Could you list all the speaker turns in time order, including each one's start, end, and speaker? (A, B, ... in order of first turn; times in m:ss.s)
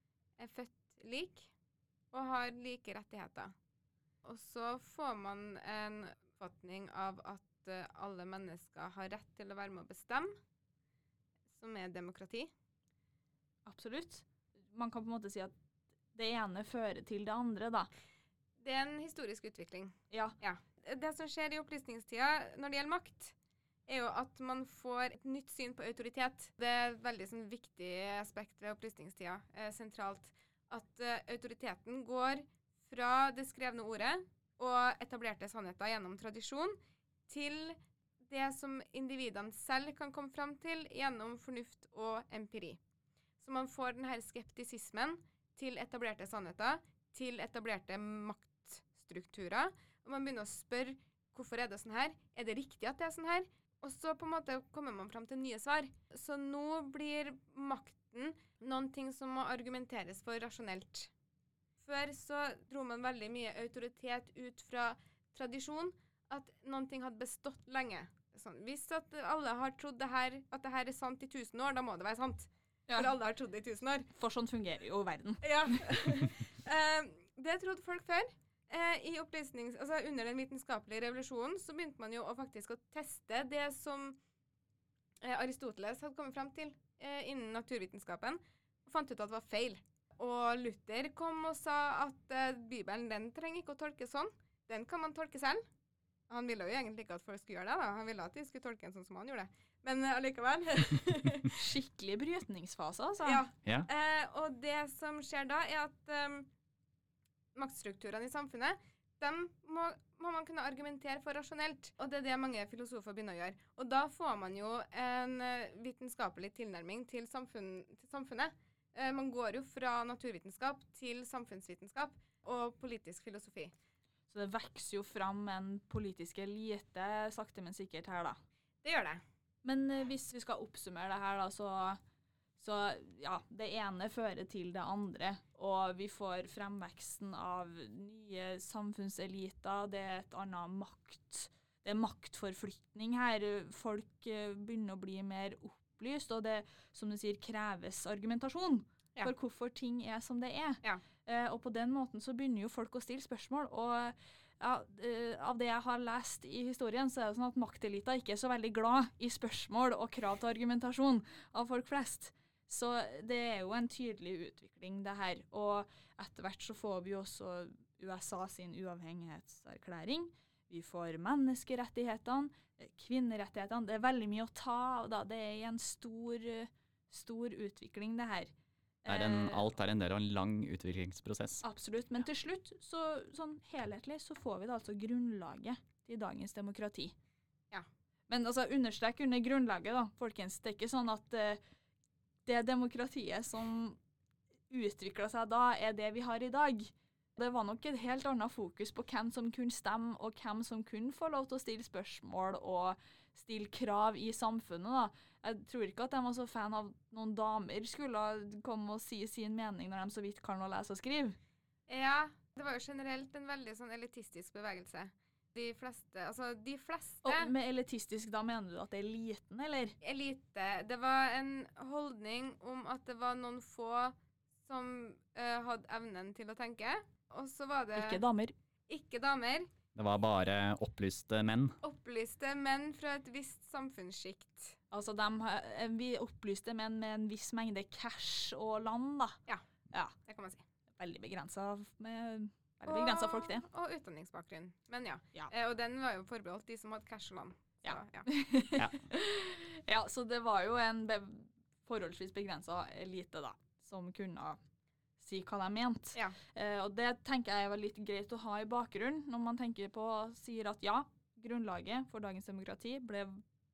0:00.4-0:01.5 A
0:02.1-0:03.5 A
0:04.2-0:10.4 A
0:11.5-0:12.5 A
0:13.6-0:15.5 B
0:16.1-0:17.9 B
0:18.6-0:23.3 A
0:23.9-0:42.8 A
0:43.4-1:01.1 A
1:01.8-1:14.1 A
1:14.1-1:16.3 B
1:15.4-1:24.2 A
1:25.2-1:35.6 A
1:36.3-1:41.6 A
1:41.5-1:43.4 B
1:43.2-1:46.5 A
1:47.5-2:03.7 A
2:04.3-2:08.4 B
2:08.8-2:09.2 A
2:09.6-2:12.0 B
2:12.6-2:58.5 B
2:59.0-2:59.7 B
2:59.1-3:01.6 C
3:01.6-3:07.1 B
3:08.3-3:11.6 B
3:12.4-3:14.0 B
3:14.7-3:31.4 B
3:31.9-3:37.5 A
3:37.2-3:39.9 B
3:40.0-3:48.2 A
3:47.9-3:48.5 B
3:48.9-3:49.7 A
3:49.9-3:51.8 C
3:51.8-3:54.8 A
3:54.9-3:59.4 B
4:00.3-4:00.6 A
4:01.0-4:03.6 B
4:02.9-4:08.3 A
4:07.8-4:14.6 B
4:15.2-4:23.4 B